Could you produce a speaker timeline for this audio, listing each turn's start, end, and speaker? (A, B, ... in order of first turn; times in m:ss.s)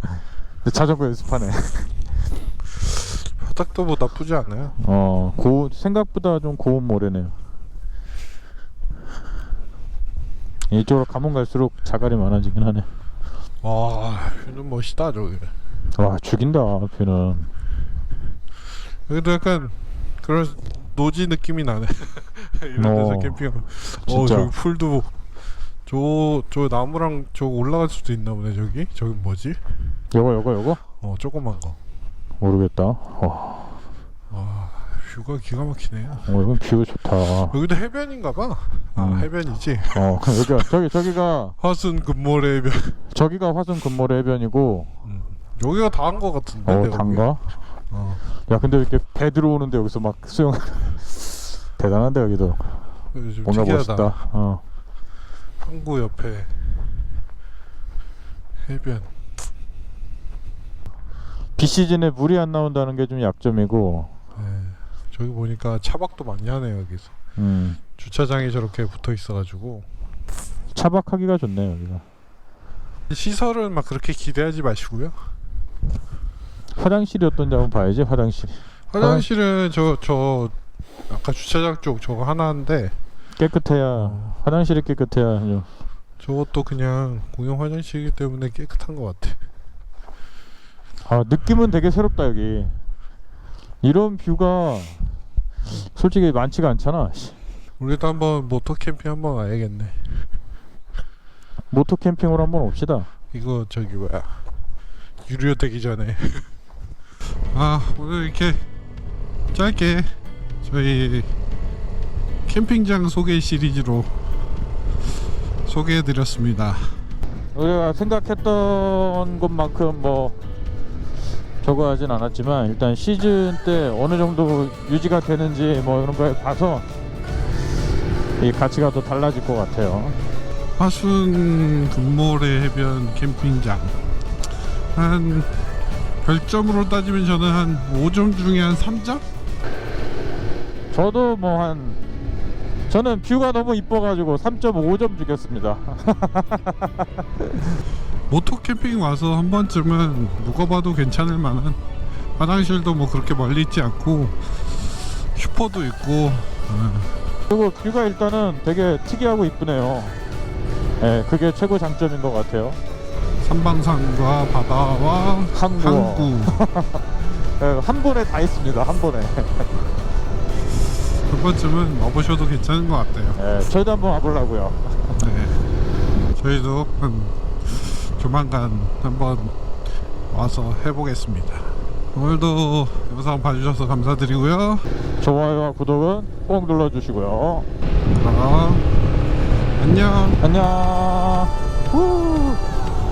0:00.2-0:02.0 A
0:03.0-0:04.8 B
0:04.8-0:07.4 A
0:10.7-0:12.9 A
0:13.6-0:15.6 B
0:15.9-0:17.5 A
0:18.9-0:25.1 B
0:22.8-0:23.5 A
0:24.1-0:24.5 A
0:25.9-0:29.8 B
0:30.1-0:30.8 A
0:31.0-0:31.8 B
0:32.4-0:33.8 A
0:34.3-0:36.3 B
0:36.2-0:37.6 A
0:37.5-0:40.1 B
0:39.0-0:39.3 A
0:39.9-0:41.6 A
0:41.6-0:43.0 B
0:43.1-0:44.9 A
0:45.0-0:47.3 B
0:46.6-0:47.5 A
0:47.9-0:48.2 B
0:48.5-0:52.8 A
0:53.1-0:54.2 B
0:53.4-0:54.6 A
0:55.6-0:56.9 B
0:58.6-0:59.1 B
1:01.6-1:04.1 A
1:04.4-1:07.2 B
1:07.4-1:07.8 A
1:08.0-1:09.9 B
1:10.7-1:12.0 A
1:13.1-1:15.3 B
1:16.8-1:19.3 A
1:18.9-1:20.6 B
1:21.1-1:23.0 B
1:23.4-1:25.7 A
1:24.0-1:24.4 B
1:26.2-1:29.4 B
1:31.0-1:32.8 A
1:33.8-1:35.1 A
1:35.7-1:37.4 A
1:37.8-1:40.3 B
1:41.7-1:43.1 A
1:43.3-1:44.4 B
1:45.2-1:46.5 B
1:47.5-1:48.6 B
1:49.5-1:51.3 B
1:52.5-1:54.2 B
1:55.6-1:57.0 B
1:57.5-2:00.4 A
2:01.6-2:06.9 A
2:08.4-2:10.2 A
2:10.8-2:14.0 B
2:14.9-2:15.5 B
2:16.2-2:19.2 B
2:20.9-2:22.0 A
2:22.9-2:27.1 A
2:28.3-2:31.8 B
2:32.4-2:37.1 B
2:37.5-2:40.2 A
2:41.0-2:42.8 A
2:43.4-2:46.6 B
2:45.5-2:49.7 A
2:51.3-2:53.4 B
2:53.4-2:55.2 A
2:55.2-2:59.6 B
3:00.3-3:04.9 B
3:05.2-3:07.7 A
3:08.1-3:08.9 B
3:09.8-3:10.4 B
3:10.4-3:12.6 A